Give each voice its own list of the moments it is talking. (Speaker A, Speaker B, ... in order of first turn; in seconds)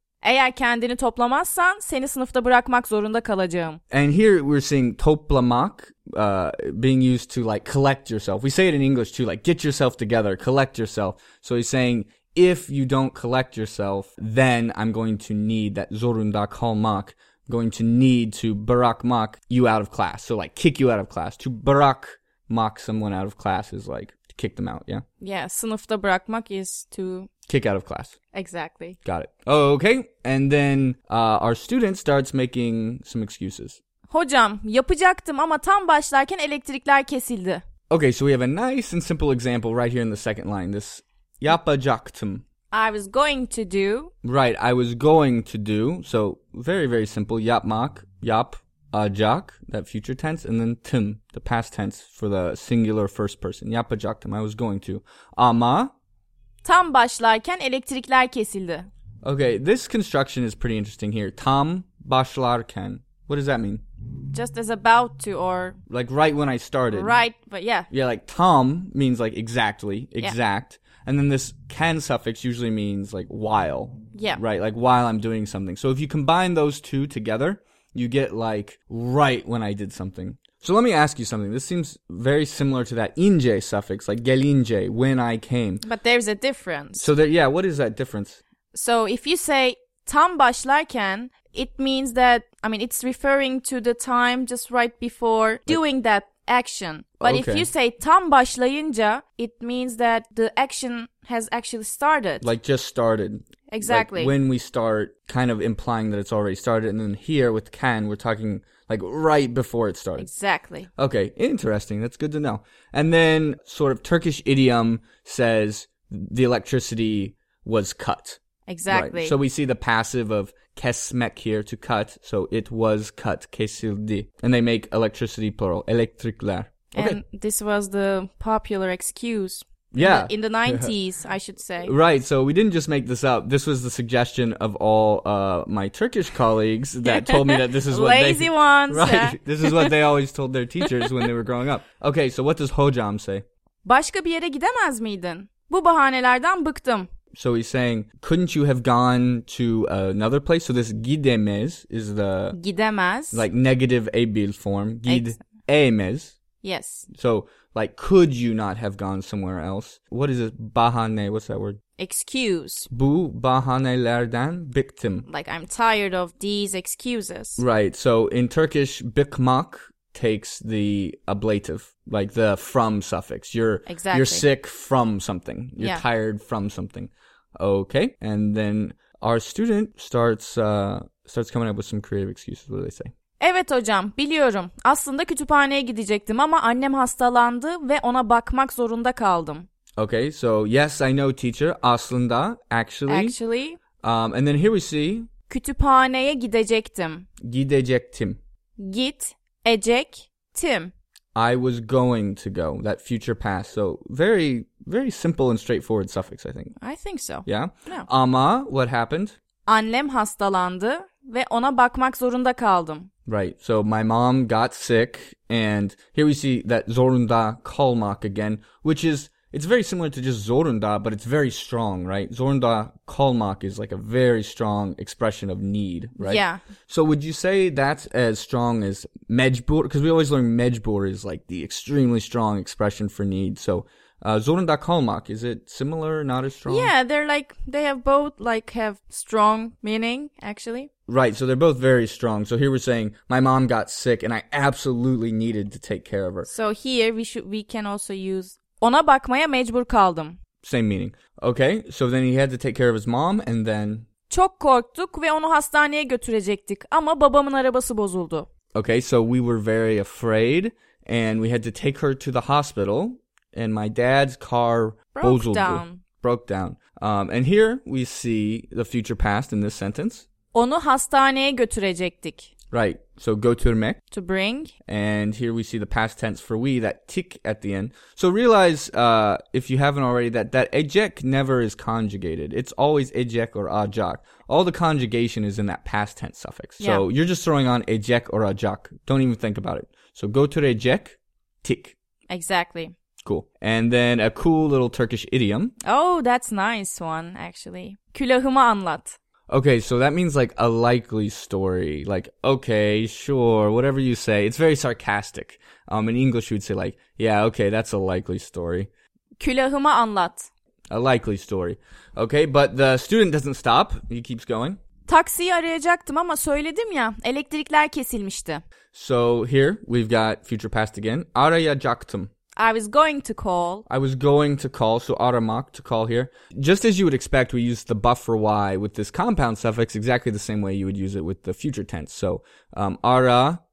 Speaker A: 0.2-3.8, 25.2-27.3, 28.3-29.0, 34.1-37.6, 42.7-44.1, 56.6-58.9, 64.3-65.8, 66.9-67.9, 74.1-74.4, 85.8-87.1, 88.7-102.5, 103.7-104.3, 110.2-110.9, 118.7-119.4, 126.9-131.9, 137.1-139.9, 143.8-147.1, 152.5-153.5, 155.1-155.4, 156.6-157.1, 162.0-162.9, 165.3-167.6, 173.9-174.5, 175.8-176.0, 183.4-189.7, 193.1-193.8, 195.5-197.3, 198.8-200.9, 206.8-208.1, 209.7-213.1, 226.2-226.6, 236.7-240.9, 246.5-250.4, 254.3-258.5, 265.1-266.0, 270.5-272.5, 274.1-274.7, 286.8-287.1, 292.3-293.0, 295.8-299.2, 309.4-310.5, 315.1-318.6, 322.6-323.9
Speaker B: 3.9-25.1, 27.5-28.2, 29.1-33.8, 37.9-42.4, 44.2-55.9, 59.2-63.8, 65.9-67.2, 67.9-85.8, 87.0-88.4, 97.2-97.7, 102.4-110.3, 111.0-127.2, 129.9-130.9, 131.8-143.4, 147.3-152.6, 153.3-156.4, 157.1-161.8, 162.9-165.3, 167.6-183.1, 190.0-193.4, 194.0-195.3, 197.4-198.4, 201.3-206.8, 207.4-209.4, 213.3-236.9, 241.1-246.5, 250.6-254.1, 258.7-270.3, 272.7-274.0, 274.9-292.0, 293.2-295.8, 299.5-308.9, 310.9-314.8, 318.9-322.3, 323.9-333.6